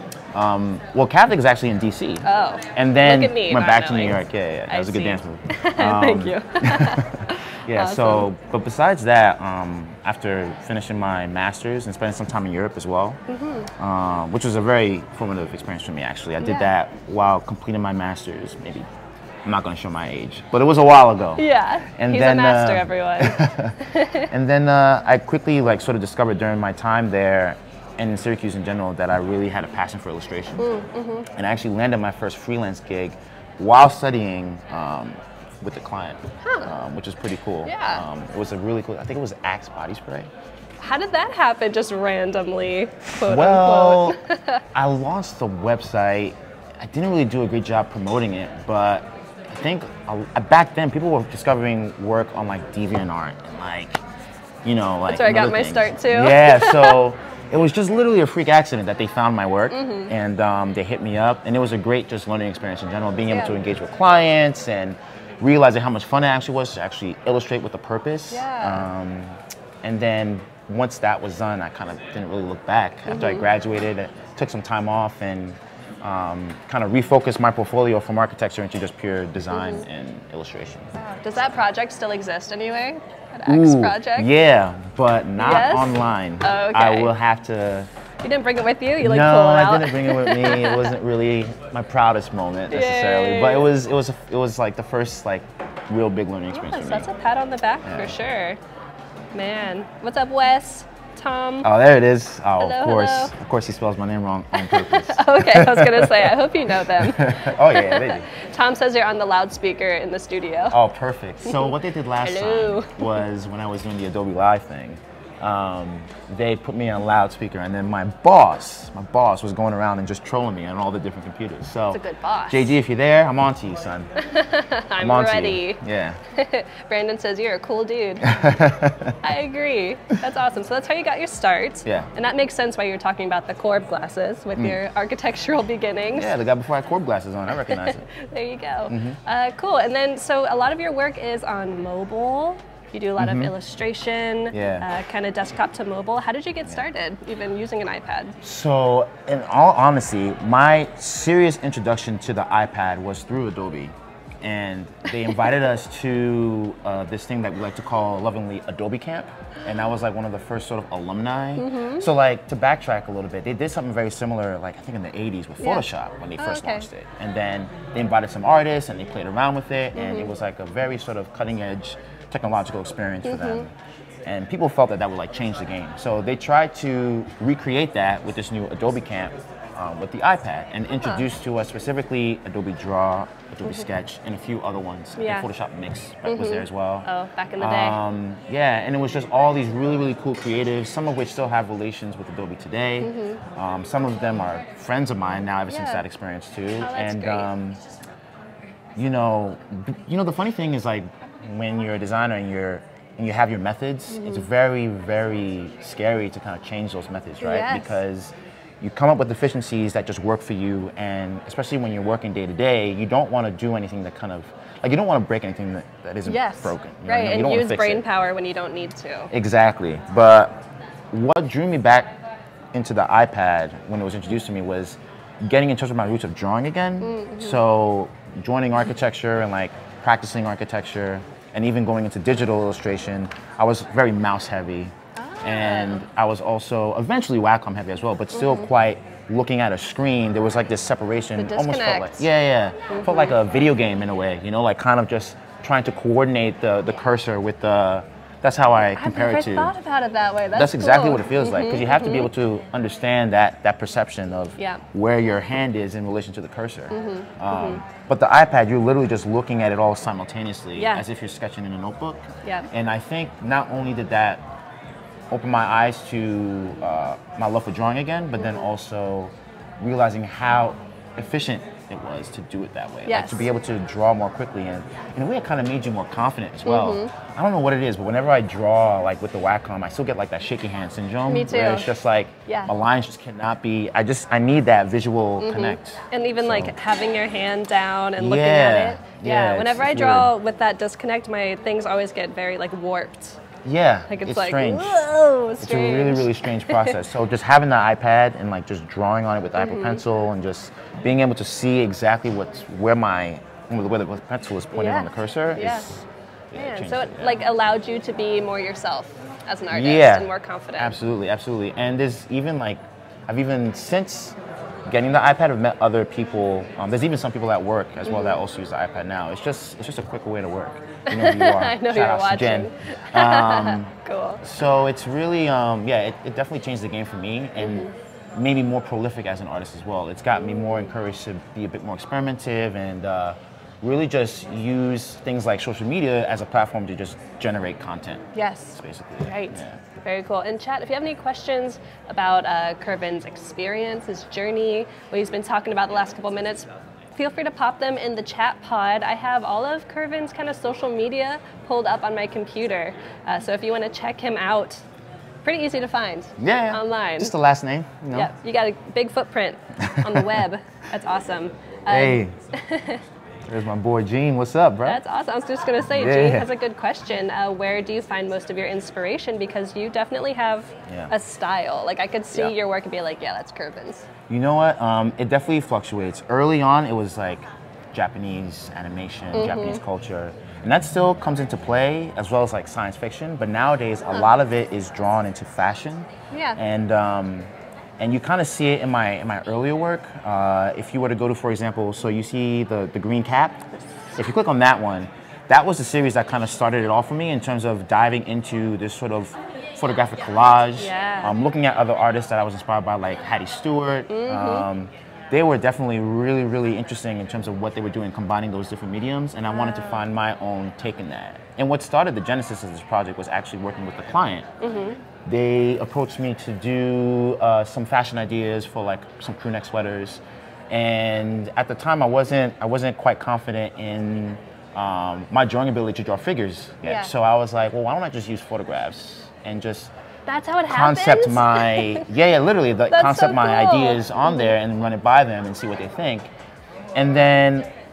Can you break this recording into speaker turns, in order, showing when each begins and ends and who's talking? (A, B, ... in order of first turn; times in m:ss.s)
0:00.3-0:13.2 A
0:02.2-0:08.3 B
0:13.3-0:13.7 B
0:13.8-0:18.9 A
0:16.4-0:16.7 B
0:19.4-0:30.7 A
0:21.4-0:24.3 B
0:30.6-0:31.3 B
0:31.3-0:40.3 A
0:36.4-0:36.7 B
0:37.6-0:38.0 B
0:40.8-0:44.6 B
0:43.2-0:44.2 A
0:44.7-0:54.0 A
0:54.6-1:20.9 A
0:55.1-0:57.0 B
0:59.7-1:00.1 B
1:03.3-1:03.6 B
1:08.3-1:08.9 B
1:13.1-1:13.5 B
1:19.5-1:19.8 B
1:20.9-1:24.3 B
1:23.4-1:27.9 A
1:25.4-1:27.1 B
1:28.2-1:31.0 B
1:29.0-1:37.1 A
1:32.7-1:33.7 B
1:36.5-1:38.6 B
1:37.8-1:38.2 A
1:39.3-1:41.7 B
1:41.6-1:48.2 A
1:42.6-1:43.3 B
1:44.5-1:50.8 B
1:50.7-2:04.1 A
1:51.4-1:53.2 B
2:01.9-2:02.7 B
2:04.2-2:05.8 B
2:05.0-2:06.2 A
2:06.3-2:08.3 B
2:08.2-2:09.2 A
2:09.2-2:16.3 B
2:16.1-2:18.0 A
2:17.6-2:28.4 B
2:18.9-2:19.2 A
2:23.2-2:23.5 A
2:24.5-2:24.9 A
2:28.4-2:53.7 A
2:41.6-2:42.0 B
2:45.6-2:46.9 B
2:49.9-2:50.3 B
2:53.2-2:53.6 B
2:54.2-3:07.1 A
3:05.2-3:05.5 B
3:06.2-3:08.0 B
3:07.6-3:17.8 A
3:13.0-3:13.4 B
3:15.7-3:16.0 B
3:16.8-3:17.5 B
3:19.0-3:38.0 A
3:24.1-3:24.4 B
3:27.4-3:27.9 B
3:36.2-3:39.3 B
3:39.3-3:42.2 A
3:42.7-4:09.8 A
3:47.0-3:47.6 B
3:55.2-3:56.0 B
3:58.3-3:58.7 B
4:01.4-4:02.3 B
4:02.9-4:03.3 B
4:09.0-4:12.3 B
4:10.5-4:24.4 A
4:14.6-4:14.8 B
4:16.9-4:17.8 B
4:20.8-4:21.0 B
4:25.3-4:46.8 A
4:28.4-4:28.7 B
4:33.1-4:33.5 B
4:36.6-4:37.1 B
4:41.2-4:41.9 B
4:42.5-4:42.7 B
4:45.4-4:53.4 B
4:48.2-4:50.3 A
4:53.6-4:55.1 A
4:54.1-4:57.0 B
4:55.6-5:07.4 A
4:59.6-5:00.0 B
5:04.7-5:05.9 B
5:06.5-5:11.0 B
5:09.7-5:39.8 A
5:18.0-5:18.4 B
5:21.0-5:24.4 B
5:27.6-5:27.9 B
5:30.4-5:30.8 B
5:38.3-5:54.8 B
5:55.4-5:57.3 B
5:56.4-5:58.3 A
5:58.1-6:03.0 B
5:59.8-6:00.5 A
6:01.9-6:02.3 A
6:03.4-6:05.0 A
6:04.8-6:14.1 B
6:05.9-6:06.5 A
6:10.9-6:11.1 A
6:14.3-6:54.5 A
6:19.3-6:19.8 B
6:26.3-6:26.6 B
6:40.8-6:41.3 B
6:44.1-6:44.7 B
6:49.5-6:50.0 B
6:54.6-6:55.0 B
6:55.2-7:09.9 A
7:06.8-7:07.1 B
7:10.3-7:12.1 B
7:10.7-7:16.3 A
7:12.9-7:14.5 B
7:16.9-7:17.7 A